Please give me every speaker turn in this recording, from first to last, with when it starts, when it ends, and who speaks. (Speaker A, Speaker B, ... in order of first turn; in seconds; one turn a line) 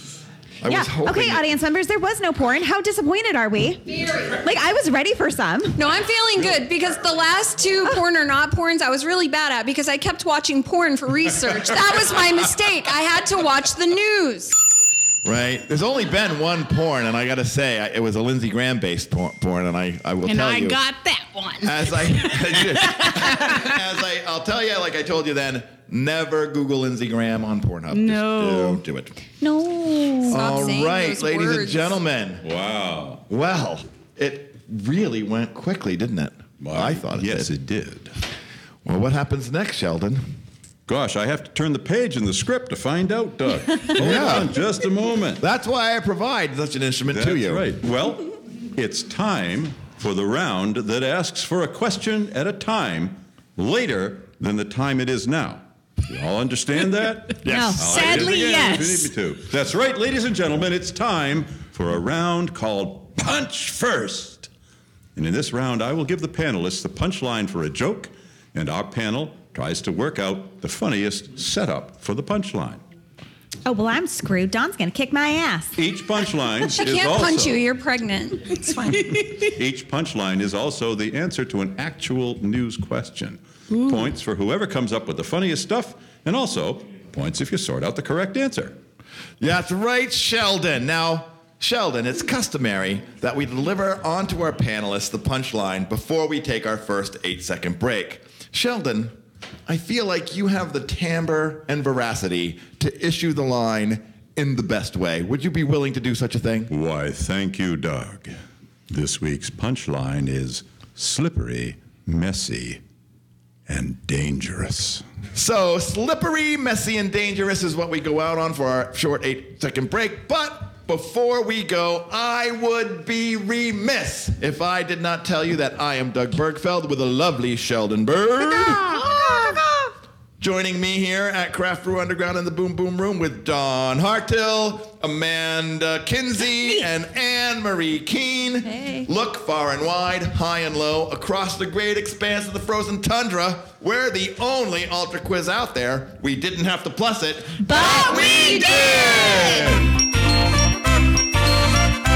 Speaker A: 0.6-1.5
Speaker B: 0.7-5.8
Speaker C: 5.8-14.5
Speaker A: 15.2-20.8
Speaker D: 20.2-23.8
Speaker A: 21.6-29.1
Speaker D: 27.9-28.8
Speaker B: 29.4-30.5
Speaker A: 30.3-32.5
Speaker C: 30.3-32.0
Speaker E: 32.4-33.2
Speaker A: 33.3-37.5
Speaker E: 36.6-38.1
Speaker A: 38.9-40.2
Speaker E: 40.9-45.4
Speaker A: 43.8-44.6
Speaker A: 45.4-47.7
Speaker E: 47.1-64.5
Speaker A: 57.4-58.4
Speaker B: 57.5-57.8
Speaker D: 57.8-59.1
Speaker E: 65.2-72.8
Speaker B: 73.7-75.8
Speaker E: 75.8-77.6
Speaker C: 76.6-79.3
Speaker E: 79.1-88.8
Speaker A: 89.4-99.1
Speaker A: 99.7-106.7
Speaker E: 106.7-108.4
Speaker E: 108.9-112.8
Speaker E: 113.7-115.0
Speaker A: 115.4-129.0
Speaker D: 128.9-129.3
Speaker B: 129.1-129.6
Speaker A: 130.4-149.9
Speaker C: 138.8-139.0
Speaker B: 147.7-148.6
Speaker C: 147.9-148.9
Speaker E: 148.1-149.9